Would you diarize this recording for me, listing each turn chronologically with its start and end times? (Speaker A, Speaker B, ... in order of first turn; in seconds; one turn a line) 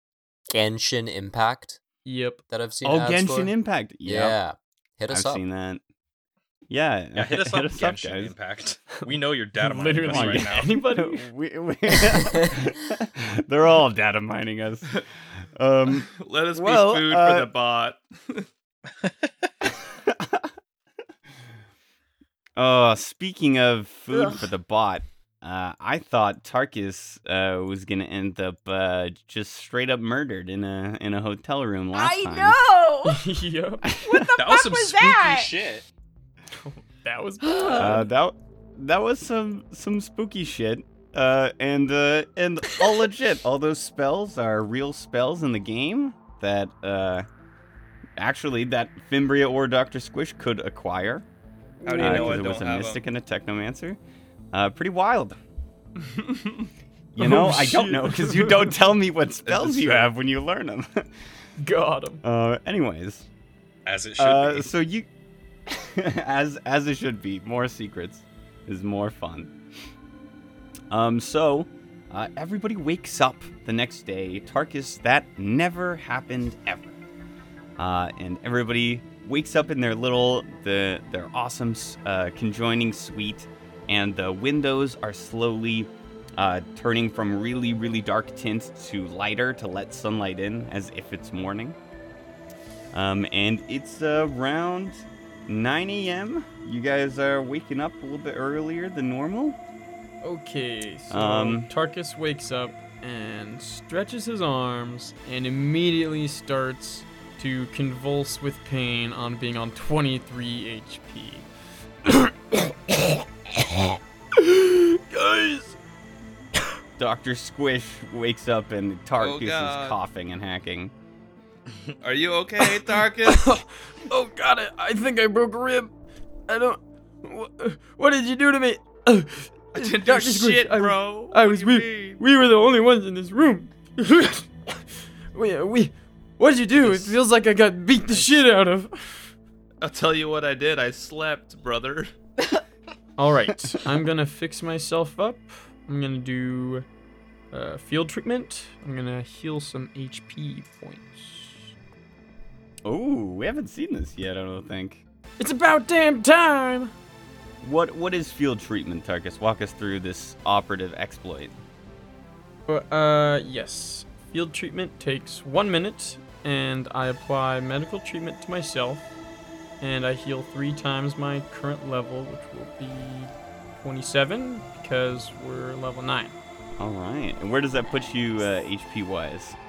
Speaker A: 0.5-1.8
Speaker B: 2.0-2.4
Speaker A: 2.5-3.5
Speaker C: 2.8-4.4
Speaker A: 4.0-5.4
Speaker C: 5.1-5.8
Speaker C: 6.7-8.3
Speaker D: 7.2-10.7
Speaker B: 9.0-11.3
Speaker C: 10.0-17.5
Speaker E: 16.1-18.5
Speaker C: 20.1-20.5
Speaker C: 22.6-32.6
Speaker F: 24.1-24.5
Speaker F: 31.9-33.2
Speaker B: 33.0-33.9
Speaker C: 33.8-34.3
Speaker F: 34.0-35.5
Speaker D: 34.4-35.9
Speaker B: 36.5-38.1
Speaker F: 37.4-38.0
Speaker C: 37.7-47.2
Speaker C: 48.2-51.2
Speaker B: 51.8-52.6
Speaker E: 51.8-53.0
Speaker C: 52.0-54.0
Speaker C: 54.5-55.4
Speaker C: 57.1-61.1
Speaker B: 57.2-58.8
Speaker E: 59.4-60.1
Speaker B: 61.6-62.2
Speaker C: 62.2-63.2
Speaker D: 63.9-64.7
Speaker C: 64.2-65.1
Speaker C: 65.7-69.5
Speaker C: 70.9-77.0
Speaker C: 77.8-91.8
Speaker C: 92.9-99.6
Speaker B: 100.2-111.5
Speaker C: 101.1-101.7
Speaker B: 112.0-115.8
Speaker C: 117.0-120.9
Speaker E: 119.2-120.0
Speaker E: 122.0-123.6
Speaker B: 122.8-125.9
Speaker B: 126.5-139.3
Speaker E: 129.7-132.2
Speaker E: 139.8-142.1
Speaker B: 143.2-146.8
Speaker B: 147.5-151.7
Speaker C: 152.8-155.0
Speaker B: 155.4-156.9
Speaker C: 157.6-161.6
Speaker B: 162.7-169.0
Speaker B: 169.8-176.3
Speaker C: 176.8-179.6
Speaker F: 177.8-178.5